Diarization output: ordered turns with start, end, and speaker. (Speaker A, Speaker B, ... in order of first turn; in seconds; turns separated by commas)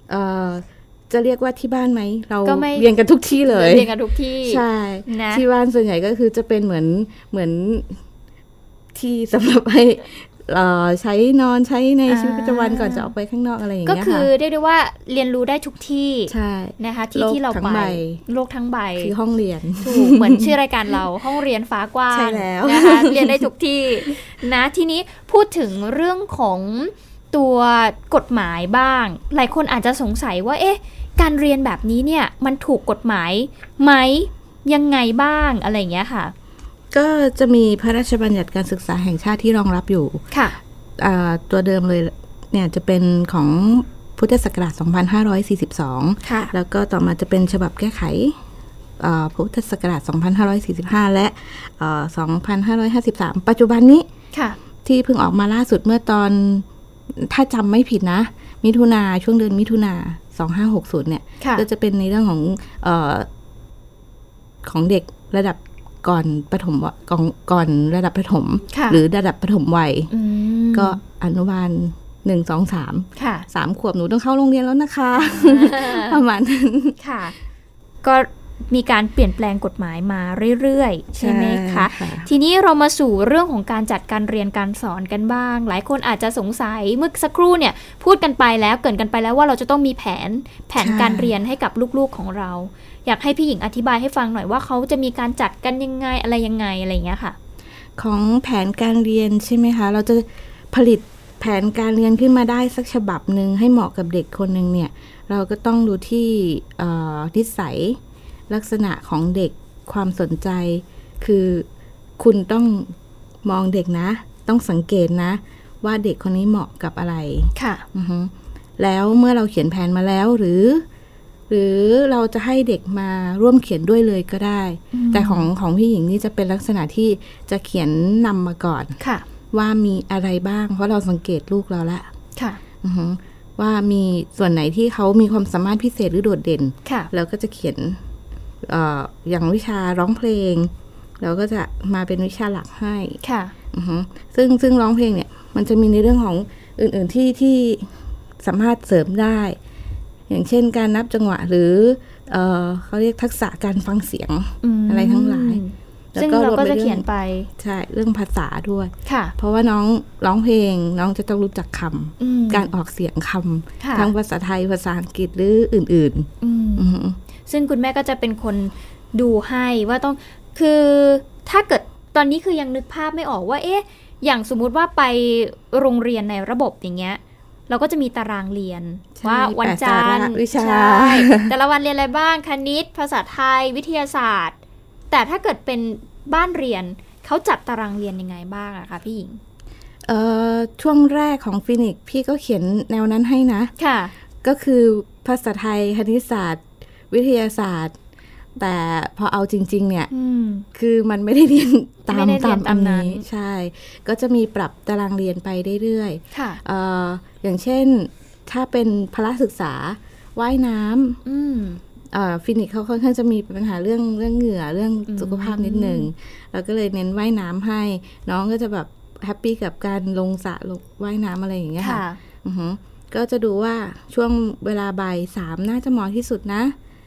Speaker A: 0.1-3.9, Speaker B: 2.4-2.9, Speaker B: 3.5-5.4, Speaker A: 4.4-8.0, Speaker A: 8.9-14.3, Speaker B: 12.1-13.1, Speaker B: 13.9-19.1, Speaker A: 16.3-18.2, Speaker A: 19.0-20.5, Speaker B: 19.8-36.3, Speaker A: 22.1-23.5, Speaker A: 36.9-40.2, Speaker B: 40.3-40.6, Speaker A: 41.0-48.4, Speaker B: 46.2-46.5, Speaker A: 49.0-54.1, Speaker A: 54.9-63.3, Speaker A: 64.6-70.1, Speaker B: 68.7-69.0, Speaker B: 70.1-71.0, Speaker A: 70.7-77.0, Speaker B: 73.2-73.5, Speaker B: 75.1-76.2, Speaker B: 77.0-77.3, Speaker B: 78.0-97.4, Speaker A: 81.2-82.3, Speaker A: 90.8-91.3, Speaker A: 98.0-111.7, Speaker A: 112.2-112.9, Speaker A: 113.4-120.8, Speaker B: 117.5-117.8, Speaker A: 121.5-129.0, Speaker B: 124.9-125.5, Speaker B: 129.0-129.2, Speaker A: 129.5-132.1, Speaker A: 132.8-138.0, Speaker B: 136.8-137.1, Speaker A: 138.6-143.2, Speaker B: 143.2-143.5, Speaker A: 143.7-149.6, Speaker A: 150.3-155.6, Speaker B: 154.6-157.5, Speaker A: 156.1-157.1, Speaker A: 157.6-167.2, Speaker B: 159.1-159.3, Speaker B: 162.2-162.7, Speaker B: 163.8-164.1, Speaker B: 166.4-184.6, Speaker A: 179.2-181.5, Speaker B: 185.1-189.4, Speaker A: 190.1-193.7, Speaker B: 193.8-194.1, Speaker A: 194.4-197.9, Speaker A: 198.6-200.1, Speaker B: 200.1-200.7, Speaker A: 200.7-211.2, Speaker B: 202.1-203.2, Speaker B: 206.3-206.6, Speaker B: 211.2-211.8, Speaker A: 212.1-226.8, Speaker B: 215.1-216.1, Speaker B: 221.8-222.2